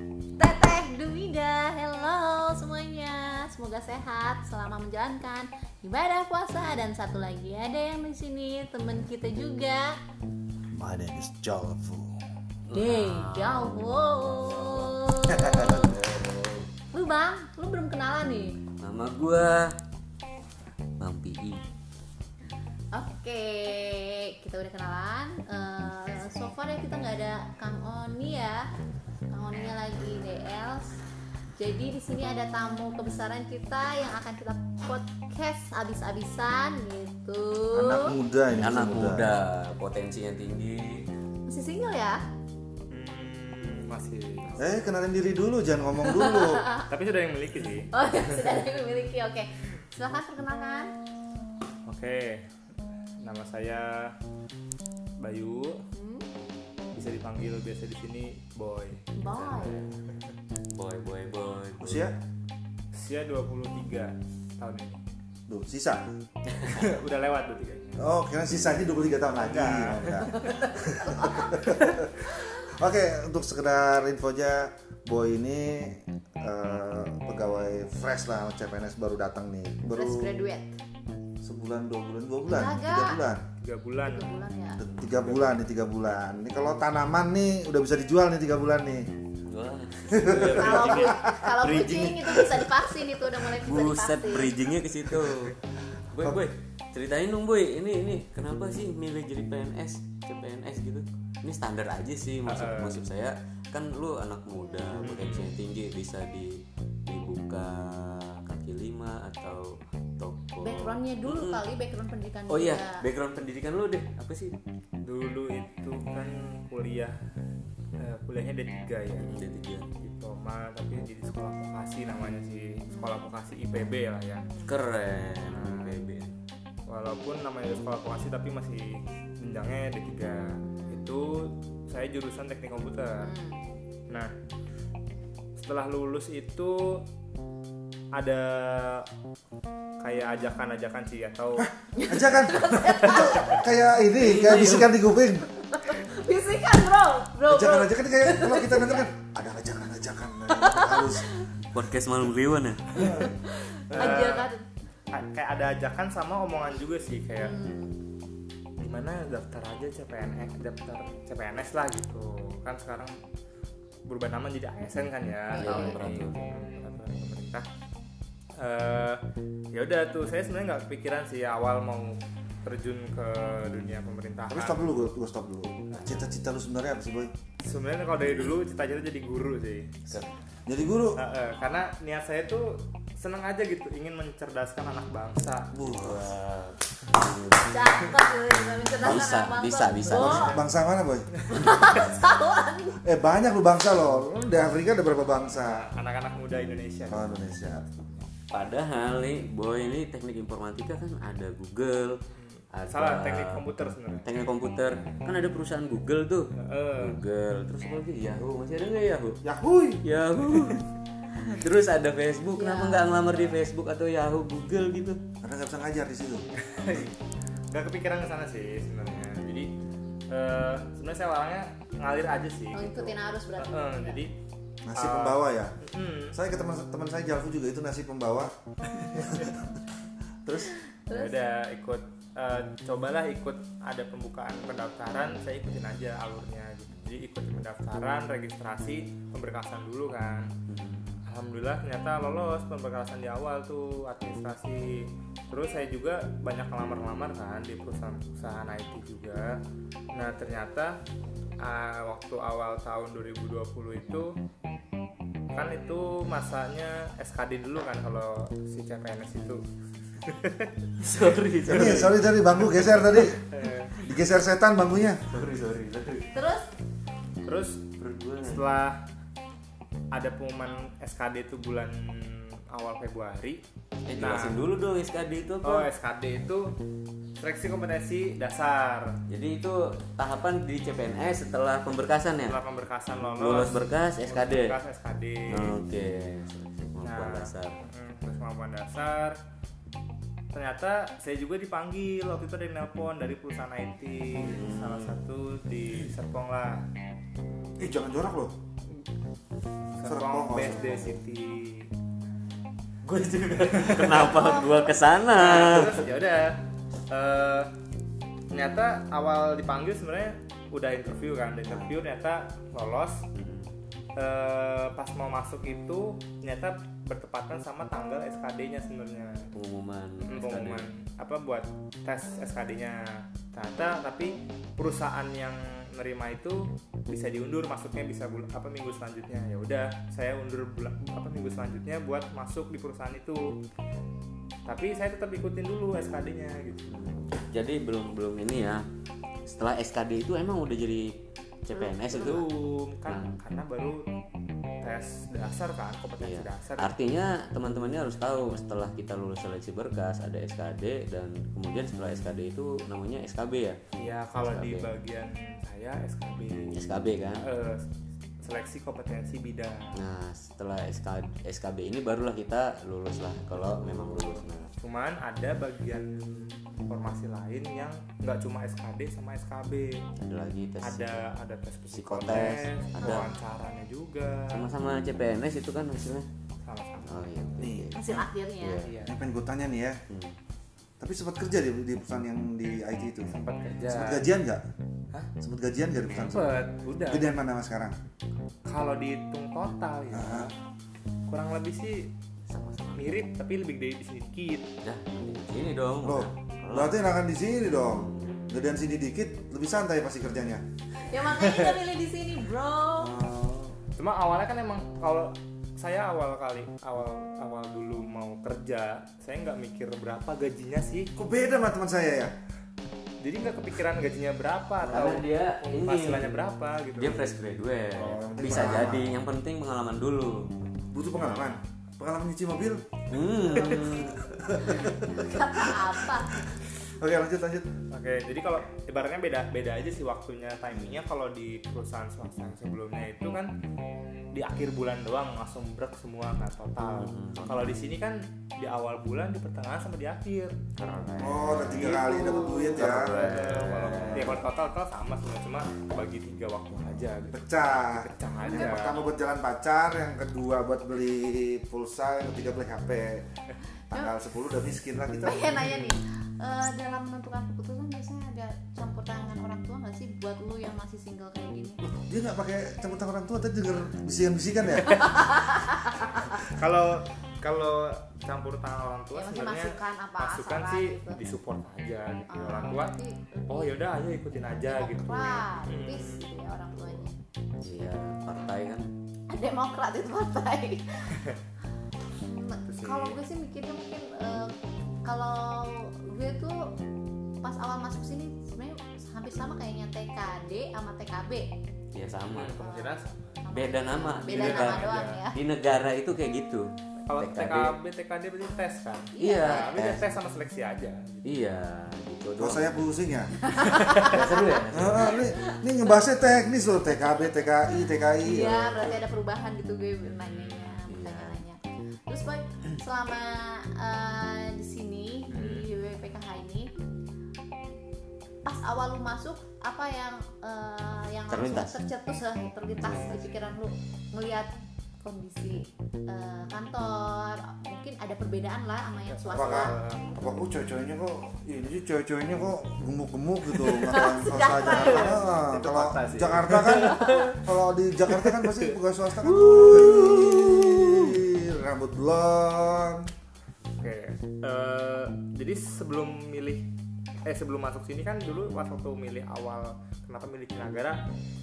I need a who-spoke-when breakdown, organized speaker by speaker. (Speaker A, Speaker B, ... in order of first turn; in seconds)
Speaker A: 0.4-10.0, 12.7-15.9, 16.9-18.6, 22.9-28.6, 29.3-30.9, 31.6-38.1, 41.5-42.2, 46.1-46.8, 47.9-50.9, 55.9-56.3, 59.1-59.8, 70.4-71.5, 79.9-80.7, 82.5-83.2, 84.0-84.8, 90.5-94.5, 104.6-105.0, 110.6-113.0, 122.9-123.2, 124.5-124.8, 130.7-131.1, 133.2-133.6, 141.9-143.6, 145.6-149.1, 150.5-151.7, 152.9-154.6, 157.3-158.0, 165.5-166.0, 187.6-190.5, 191.5-193.0, 212.5-213.2, 222.7-224.2, 230.7-231.4, 266.3-266.7, 304.3-304.7, 373.0-373.4, 377.9-378.8, 401.0-403.1, 423.5-423.8, 424.6-426.3, 448.4-448.9, 453.9-454.1, 455.2-461.8, 464.9-466.1, 469.1-471.2, 472.3-477.2, 479.3-481.2, 482.2-484.5, 485.0-486.7, 487.4-491.5, 492.5-495.4, 499.1-499.8, 503.4-505.6, 508.2-516.7, 518.4-530.3, 533.6-535.3, 536.7-537.2
Speaker B: 10.7-12.1, 15.3-15.8, 37.7-39.3, 44.6-46.7, 61.8-62.1, 65.5-66.1, 68.0-80.3, 81.4-83.4, 84.8-89.1, 90.1-92.2, 141.6-145.5, 147.5-151.2, 152.9-153.3, 153.9-154.4, 174.5-177.3, 180.7-181.2, 185.7-186.3, 190.1-191.4, 193.0-195.9, 197.1-198.0, 209.4-210.0, 215.4-216.5, 224.8-225.8, 226.3-228.5, 229.1-229.8, 230.4-230.7, 261.7-263.4, 264.0-265.2, 297.8-298.5, 300.0-300.9, 377.6-378.3, 379.1-380.0, 381.0-384.6, 385.4-387.9, 390.1-390.5, 396.0-400.6, 403.0-403.8, 411.1-412.3, 418.1-419.1, 420.9-422.9, 424.2-427.7, 441.2-443.2, 443.8-444.4, 447.3-453.3, 453.9-455.5, 461.8-465.0, 502.4-503.4, 504.7-509.0, 529.3-543.1
Speaker C: 12.7-16.7, 18.8-19.7, 21.0-21.6, 38.6-41.0, 59.3-59.9, 60.7-62.1, 84.8-85.3, 89.5-91.2, 93.5-95.6, 96.1-111.6, 112.5-114.6, 119.2-119.9, 124.7-126.3, 144.2-144.9, 151.7-153.1, 165.5-166.4, 185.8-187.9, 189.0-190.5, 198.5-202.2, 202.7-203.6, 204.2-209.4, 210.0-215.2, 240.7-241.2, 261.0-263.6, 265.3-266.3, 268.0-268.7, 274.1-275.9, 279.3-282.6, 283.4-284.8, 285.5-287.8, 294.4-295.2, 300.7-301.2, 303.1-306.0, 313.3-313.7, 319.5-320.9, 336.9-338.9, 339.5-341.1, 341.6-342.5, 343.1-343.4, 346.2-353.8, 354.4-354.9, 356.7-357.5, 359.9-364.8, 370.2-371.2, 371.9-373.3, 374.5-376.3, 377.0-378.9, 380.1-380.4, 392.5-393.2, 394.8-397.0, 397.9-398.5, 414.8-420.5, 423.1-424.2, 436.9-437.8, 440.8-444.4, 477.6-478.9, 491.9-492.6, 493.5-497.8, 499.2-500.1, 501.2-502.7, 503.9-505.2, 510.9-511.4, 521.3-521.8, 522.8-523.3, 539.8-540.6
Speaker D: 42.9-44.6, 46.9-47.9, 51.9-52.5, 53.2-54.1, 55.2-55.8, 56.9-59.0, 62.9-65.0, 66.6-68.1, 69.4-70.2, 71.6-71.8, 83.6-84.3, 85.3-85.6, 102.5-103.0, 105.0-105.5, 115.0-117.1, 118.0-119.3, 120.0-124.5, 125.4-126.0, 126.9-133.3, 135.6-137.1, 138.1-139.1, 140.0-141.7, 143.0-143.6, 153.9-154.5, 155.1-157.6, 158.8-163.1, 164.1-167.7, 168.6-175.1, 177.6-180.0, 181.2-185.7, 190.1-190.7, 191.3-192.0, 195.6-198.2, 202.3-204.3, 206.6-207.2, 213.3-213.6, 216.5-217.2, 217.7-219.7, 220.3-224.3, 224.9-226.4, 228.9-229.5, 231.1-240.5, 241.3-249.6, 250.1-251.0, 251.6-254.4, 255.5-259.6, 260.2-260.7, 263.5-263.9, 267.4-267.9, 268.4-269.0, 270.1-273.6, 274.2-274.6, 275.6-276.8, 277.4-279.2, 282.4-285.8, 287.0-289.4, 290.5-296.9, 300.0-301.9, 303.4-306.6, 307.1-307.7, 308.5-313.2, 314.1-319.5, 320.2-333.6, 334.6-336.9, 342.0-344.1, 344.8-346.9, 353.9-357.9, 358.4-360.0, 363.6-370.0, 370.8-374.7, 376.6-377.3, 378.8-379.2, 383.3-384.3, 386.1-387.3, 388.6-390.6, 391.3-392.1, 392.9-394.7, 404.0-411.1, 413.2-417.2, 418.0-418.9, 421.1-421.6, 423.6-424.2, 427.9-433.5, 434.3-440.6, 441.6-449.0, 455.5-455.9, 464.7-473.0, 473.5-476.2, 482.6-483.2, 492.2-493.5, 494.1-495.2, 497.0-501.4, 503.6-504.2, 510.0-510.8, 515.3-515.7, 529.1-530.1, 534.5-537.5, 538.1-541.2, 543.8-546.7, 547.2-551.0